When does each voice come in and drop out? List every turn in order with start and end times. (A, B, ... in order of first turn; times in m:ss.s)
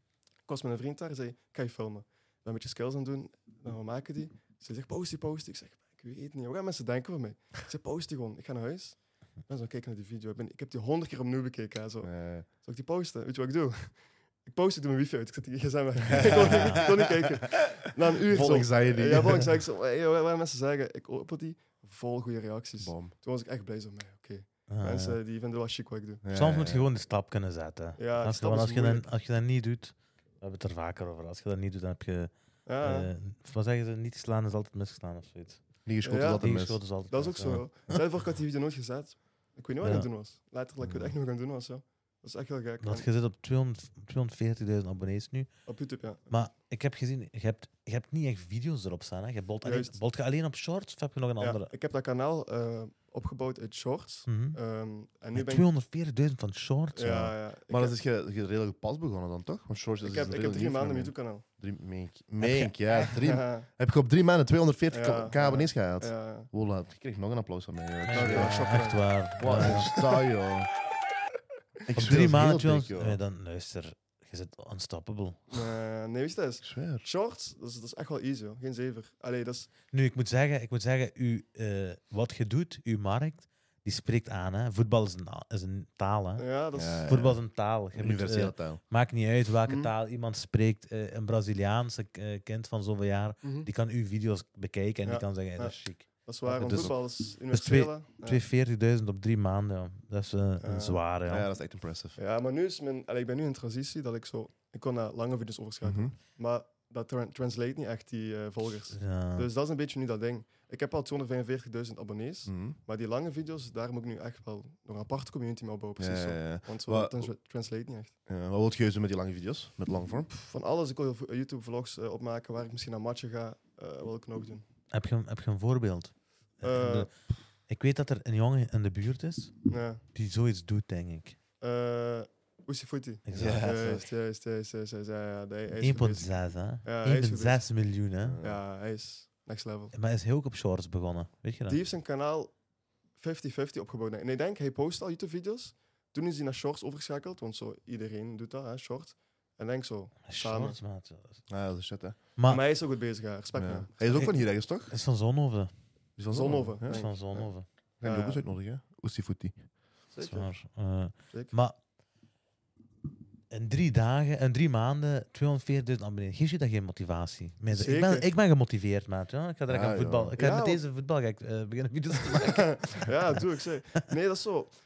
0:00.4-0:26.2 A
0:12.0-0:12.5 B
0:16.1-0:17.8 B
0:18.3-0:19.6 B
0:22.8-0:23.1 B
0:24.7-0:25.2 C
0:26.2-0:26.8 B
0:26.3-0:35.6 C
0:28.0-0:29.1 A
0:32.6-0:33.1 A
0:35.8-0:36.8 B
0:36.0-0:43.1 A
0:36.3-0:37.7 C
0:39.8-0:40.1 C
0:40.8-0:41.1 B
0:42.8-0:45.5 C
0:45.7-0:46.3 A
0:46.3-0:51.7 C
0:49.6-0:50.0 A
0:51.4-0:55.7 A
0:54.3-0:54.6 C
0:55.3-0:57.3 C
0:56.9-0:58.0 A
0:57.7-1:08.6 B
1:00.0-1:01.4 A
1:02.4-1:03.1 C
1:03.0-1:03.7 A
1:04.9-1:06.5 A
1:08.0-1:09.9 C
1:08.1-1:10.1 A
1:09.4-1:10.7 B
1:11.9-1:13.2 B
1:11.9-1:15.7 C
1:15.5-1:19.7 A
1:16.6-1:17.0 B
1:19.9-1:26.4 C
1:26.4-1:27.1 A
1:26.7-1:28.8 B
1:27.1-1:41.5 C
1:29.6-1:29.9 A
1:33.4-1:33.7 A
1:35.0-1:38.4 A
1:36.5-1:36.9 B
1:40.6-1:41.0 A
1:41.3-1:42.2 B
1:42.2-1:58.1 A
1:45.8-1:46.1 B
1:48.9-1:49.5 C
1:52.5-1:52.8 B
1:56.0-1:57.3 B
1:58.3-2:00.3 B
2:00.3-2:04.6 A
2:04.9-2:07.1 C
2:06.6-2:07.1 A
2:07.7-2:11.4 C
2:09.7-2:10.0 A
2:11.6-2:16.3 A
2:13.2-2:13.7 C
2:13.3-2:14.0 B
2:15.8-2:18.4 C
2:16.8-2:17.6 A
2:18.2-2:18.6 B
2:18.4-2:19.9 A
2:19.9-2:21.8 C
2:21.7-2:22.5 A
2:23.2-2:30.8 A
2:30.3-2:31.4 C
2:31.5-2:32.2 B
2:32.4-2:32.6 C
2:32.4-2:33.9 A
2:33.6-2:34.9 B
2:34.0-2:35.7 C
2:36.2-2:37.0 B
2:36.3-2:38.4 A
2:36.8-2:37.7 C
2:38.0-2:39.6 B
2:40.1-2:40.6 A
2:40.2-2:41.8 C
2:43.5-2:53.4 C
2:47.7-2:48.3 A
2:49.7-2:50.3 B
2:50.4-2:50.8 A
2:52.2-2:54.7 A